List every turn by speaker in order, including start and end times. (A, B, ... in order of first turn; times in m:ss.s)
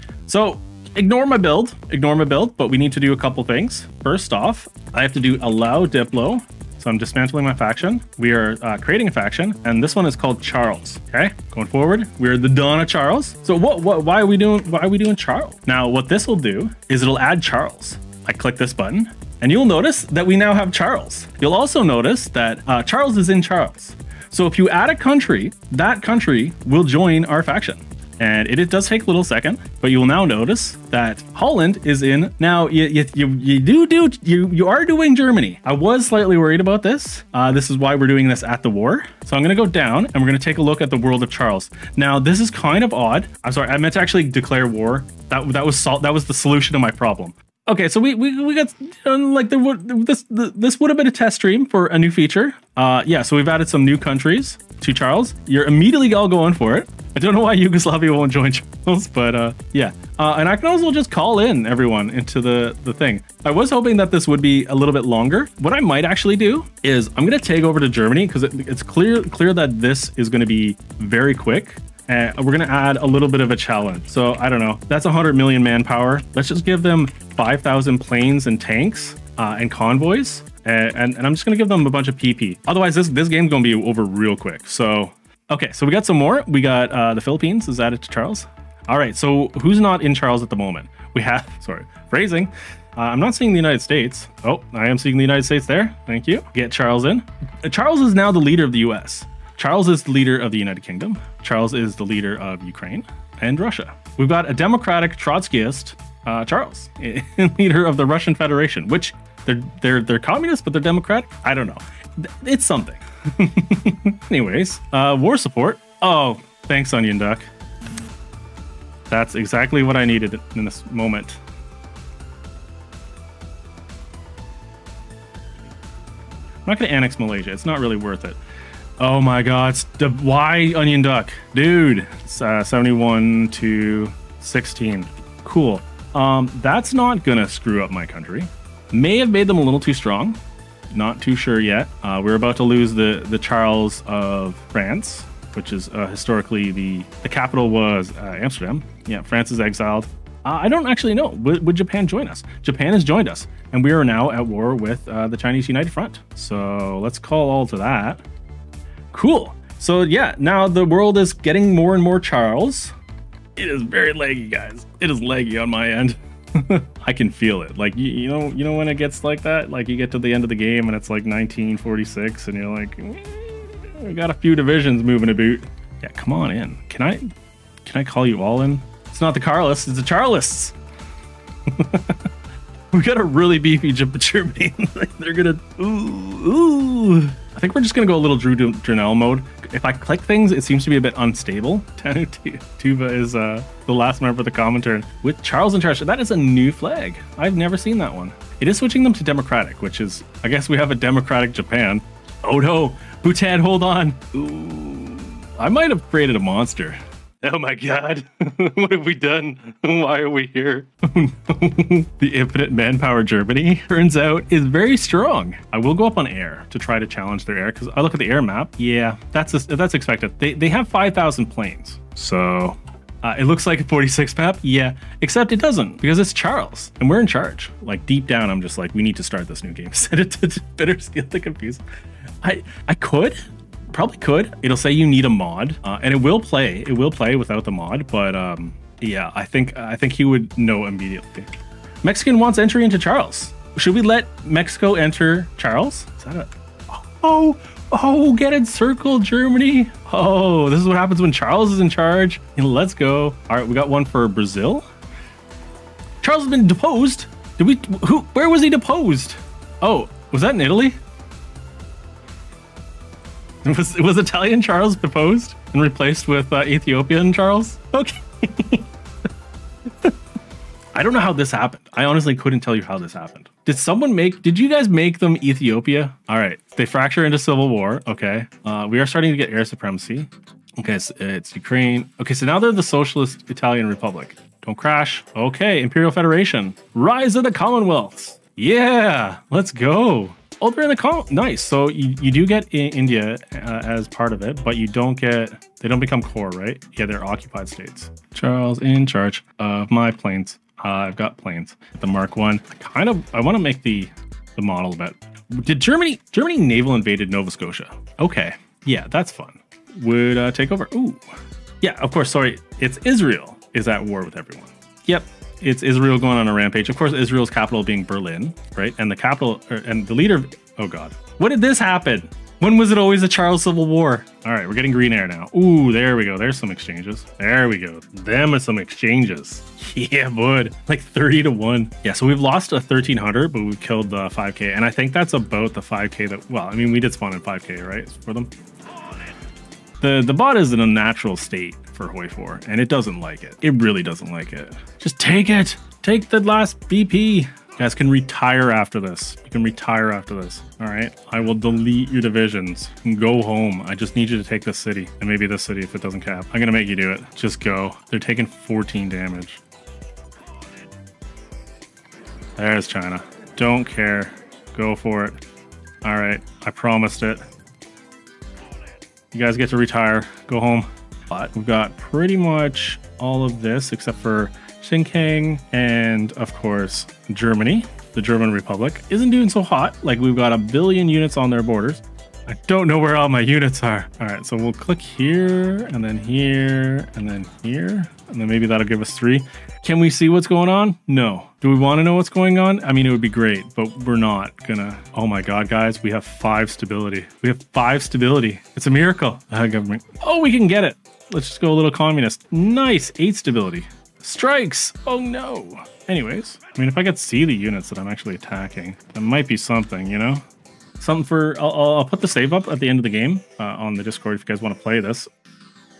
0:00.3-1:57.5 A
1:59.1-2:01.4 A
2:06.6-2:08.4 A
2:09.0-2:20.4 A
2:20.9-2:38.2 A
2:39.1-2:42.9 A
2:43.6-2:57.3 A
2:57.8-3:00.7 A
3:01.7-3:02.2 A
3:02.9-3:51.8 A
3:52.4-3:53.4 A
3:53.9-4:01.5 A
4:02.0-4:14.9 A
4:16.2-4:21.0 A
4:23.6-4:28.8 A
4:30.9-5:38.5 A
5:40.0-5:59.6 A
6:02.6-6:05.4 A
6:06.0-6:07.4 A
6:09.3-6:50.4 A
6:51.0-6:55.3 A